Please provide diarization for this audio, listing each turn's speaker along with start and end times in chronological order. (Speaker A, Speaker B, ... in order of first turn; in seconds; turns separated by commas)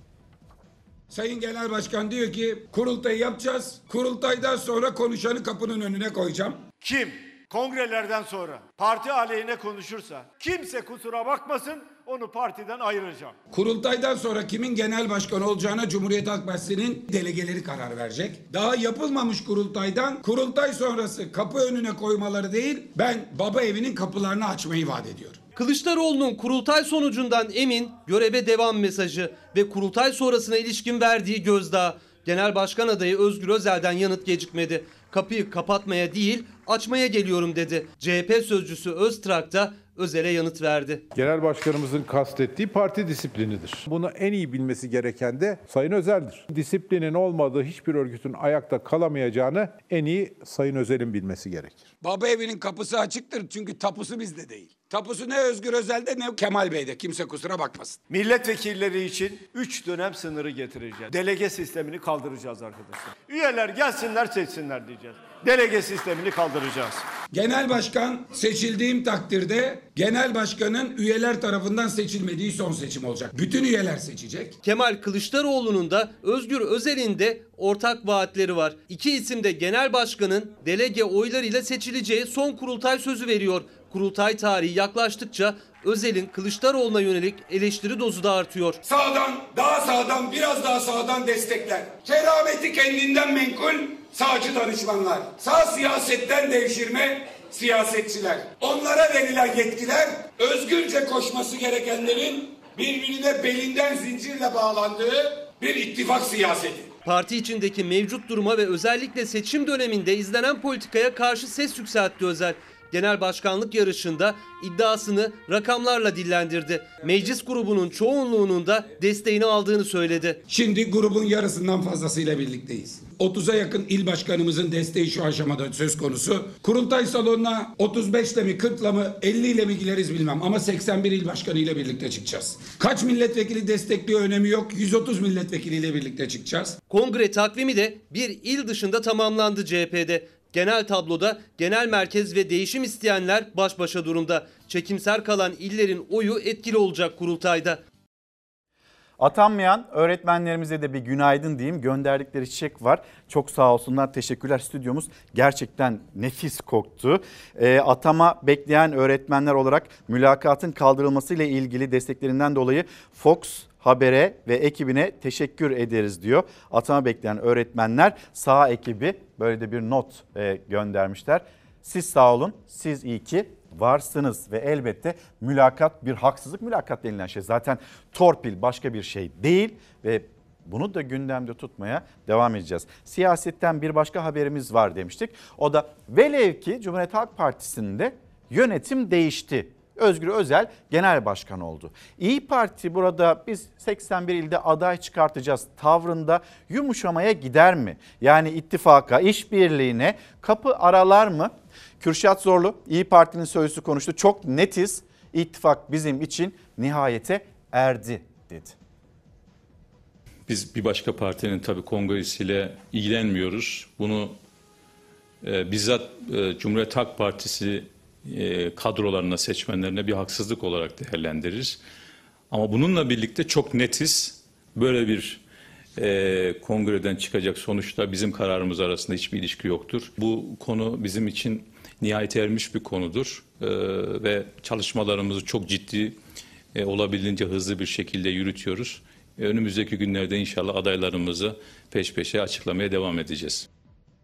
Speaker A: 1.1-6.7, Speaker B: 6.8-13.4, Speaker A: 13.5-25.4, Speaker C: 25.6-41.0, Speaker D: 41.1-51.9, Speaker A: 52.0-58.0, Speaker B: 58.1-67.0, Speaker A: 67.3-74.6, Speaker C: 74.6-88.8, Speaker A: 88.8-106.9, Speaker C: 107.0-120.4, Speaker A: 120.5-136.8, Speaker C: 136.9-147.8, Speaker E: 149.2-208.8, Speaker F: 210.5-214.4, Speaker F: 215.4-221.8, Speaker F: 222.5-225.4, Speaker F: 226.0-236.2, Speaker F: 236.7-243.7